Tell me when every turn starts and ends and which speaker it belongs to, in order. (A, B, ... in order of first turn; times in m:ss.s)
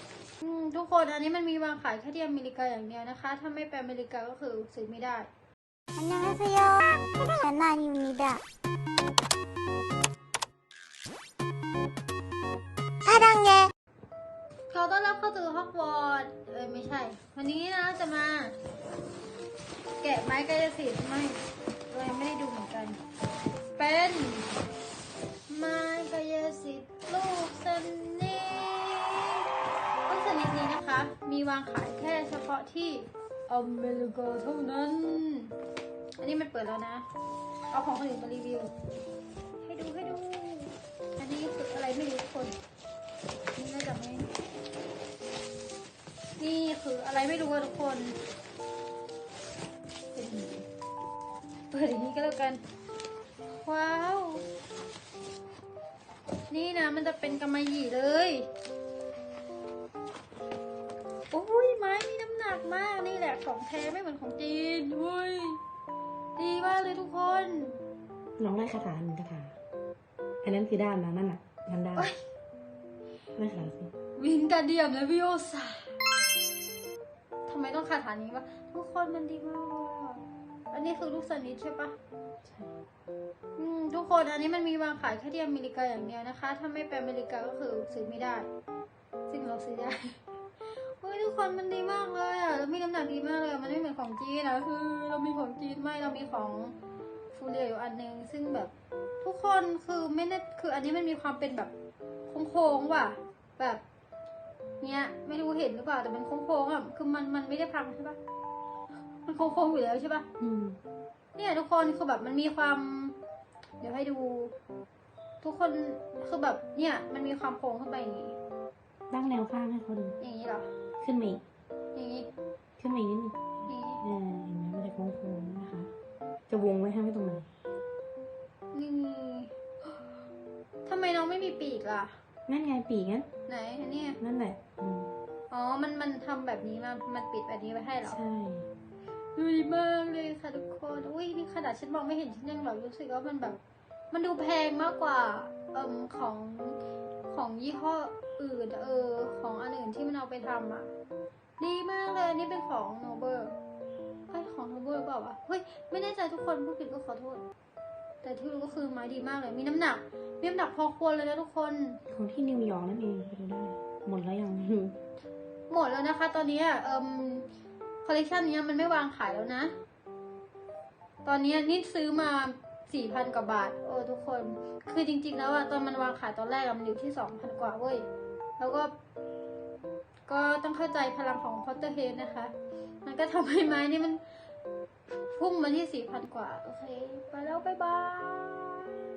0:00.4-0:05.3 A
0:06.0-0:08.4 B
0:13.0-0:13.7 B
0:14.7-0:18.6 A
0:20.0-0:23.0 A
0:23.8-0:24.6 A
0:25.5-0:29.4 A
0:30.1-0:35.5 A
0:36.2-0:37.0 A
0:37.7-0:38.7 A
0:39.6-0:42.6 A
0:43.6-0:44.3 A
0:46.4-0:48.2 A
0:50.2-0:50.7 A
0:51.7-0:52.6 A
0:53.5-0:54.4 A
0:56.5-0:58.5 A
1:01.3-1:05.6 A
1:06.4-1:07.8 A
1:08.4-1:09.6 C
1:10.4-1:12.1 C
1:13.4-1:13.9 C
1:14.2-1:15.9 A
1:17.5-1:22.0 A
1:22.4-1:22.8 C
1:23.6-1:28.5 A
1:29.3-1:30.2 A
1:30.8-1:36.8 A
1:37.3-1:41.7 A
1:42.3-1:43.8 A
1:44.8-1:48.2 A
1:49.2-1:50.2 A
1:50.4-1:50.8 C
1:51.4-1:53.2 A
1:53.8-1:54.5 A
1:55.4-1:58.4 A
1:59.1-2:00.2 C
2:00.2-2:00.7 A
2:01.0-2:01.4 C
2:02.0-2:02.3 A
2:02.8-2:05.9 C
2:03.7-2:04.0 A
2:06.5-2:07.5 C
2:08.7-2:10.1 A
2:10.8-2:12.2 A
2:12.5-2:13.3 C
2:13.5-2:14.2 A
2:14.2-2:15.1 C
2:15.5-2:18.2 A
2:18.0-2:18.7 C
2:19.4-2:23.6 A
2:24.1-2:30.9 A
2:31.6-2:33.5 A
2:34.3-2:37.4 A
2:38.2-2:42.0 A
2:42.1-2:45.0 C
2:45.7-2:47.5 A
2:48.0-2:49.7 A
2:51.2-2:58.1 A
2:58.6-2:58.9 A
3:00.3-3:02.5 A
3:03.0-3:04.2 A
3:05.3-3:08.9 A